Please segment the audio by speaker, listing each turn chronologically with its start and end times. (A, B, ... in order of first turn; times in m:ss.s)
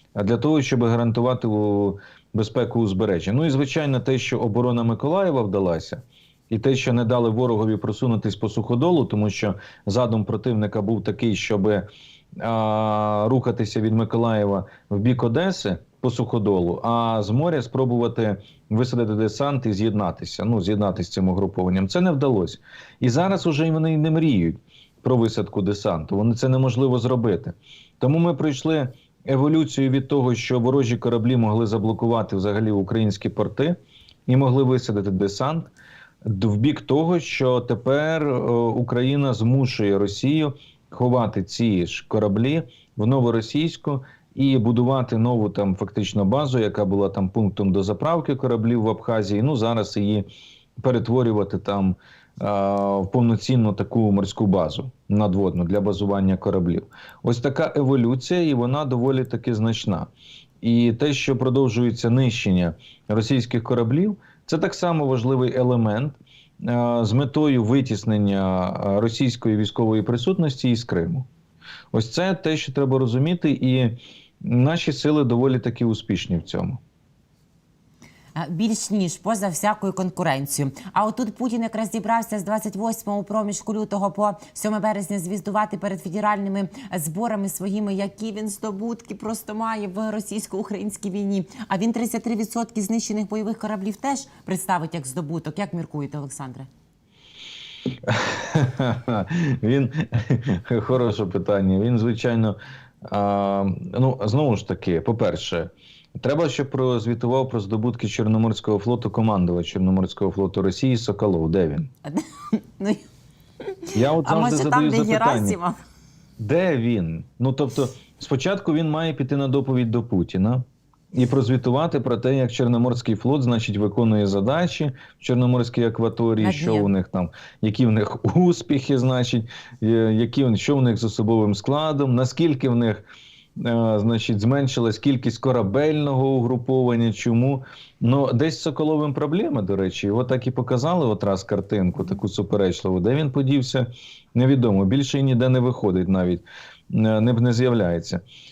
0:00.2-0:33.8 A
0:34.3-0:35.7 A
0:36.2-0:50.3 A
0:50.8-1:00.1 A
1:00.6-1:11.3 A
1:11.9-1:16.8 A
1:18.4-1:36.7 B
1:38.0-1:51.9 A
1:52.1-1:53.0 B
1:53.6-1:55.8 B
1:53.9-1:55.6 A
1:56.4-2:13.0 A
2:06.4-2:06.9 B
2:13.6-2:28.2 A